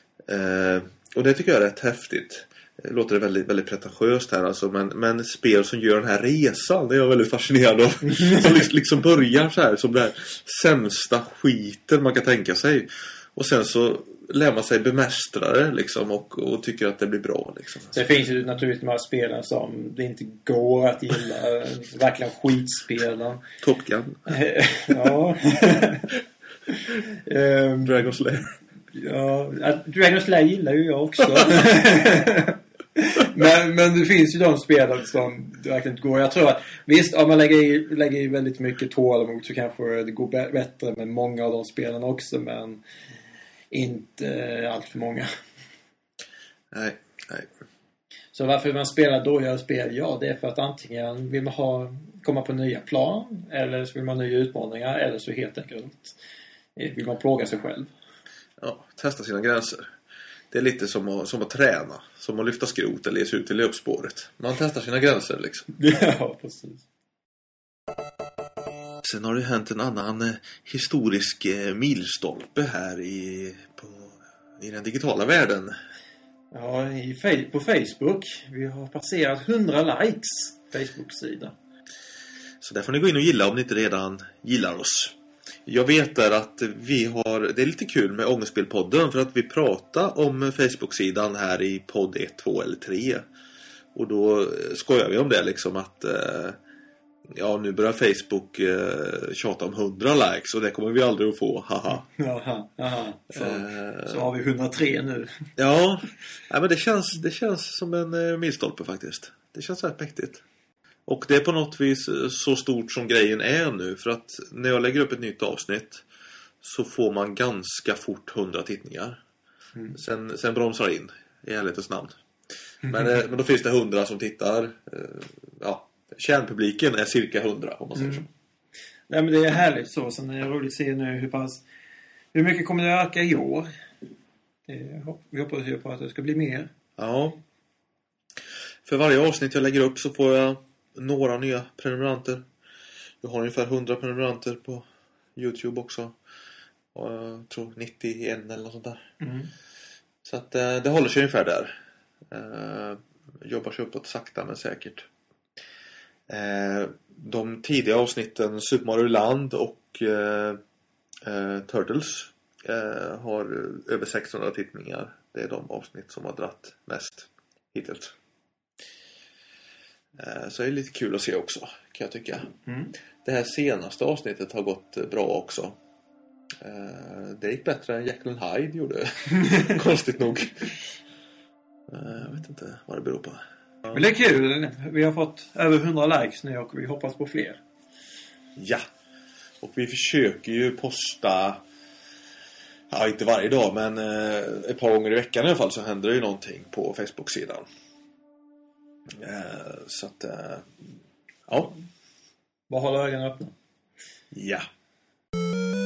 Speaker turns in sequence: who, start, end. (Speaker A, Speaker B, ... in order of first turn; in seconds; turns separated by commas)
Speaker A: 0.3-18.0, Speaker B: 8.2-8.6, Speaker B: 17.9-23.4, Speaker A: 23.6-24.3, Speaker B: 24.3-26.1, Speaker B: 26.7-28.1, Speaker A: 27.8-28.6, Speaker B: 28.9-42.8, Speaker B: 43.7-45.3, Speaker A: 46.7-47.5, Speaker B: 48.3-56.1, Speaker B: 56.8-57.9, Speaker A: 58.6-59.9, Speaker A: 60.5-65.7, Speaker B: 65.7-66.8, Speaker A: 69.0-75.7, Speaker B: 76.5-81.5, Speaker A: 82.6-85.2, Speaker A: 85.7-93.2, Speaker A: 93.9-96.6, Speaker A: 97.3-102.0, Speaker B: 101.9-105.5, Speaker A: 103.3-104.3, Speaker A: 105.6-110.4, Speaker A: 111.0-116.0, Speaker A: 116.6-119.2, Speaker A: 119.9-122.2, Speaker A: 122.8-128.3, Speaker B: 128.0-128.2, Speaker B: 129.1-131.6, Speaker B: 132.3-133.7, Speaker B: 134.7-136.7, Speaker A: 137.0-137.4, Speaker A: 138.8-142.4, Speaker A: 143.2-144.8, Speaker A: 145.4-146.2, Speaker A: 146.9-149.1, Speaker B: 149.2-149.5, Speaker A: 150.2-151.8, Speaker A: 152.3-155.1, Speaker A: 156.3-160.6, Speaker A: 161.2-168.1, Speaker A: 170.2-172.6, Speaker B: 172.7-172.9, Speaker A: 173.2-175.8, Speaker A: 176.6-180.9, Speaker A: 181.9-184.0, Speaker B: 183.9-187.6, Speaker A: 188.6-188.8, Speaker A: 189.6-191.6, Speaker A: 192.9-197.7, Speaker A: 199.2-200.8, Speaker A: 201.5-201.7, Speaker B: 202.7-203.5, Speaker A: 204.3-204.7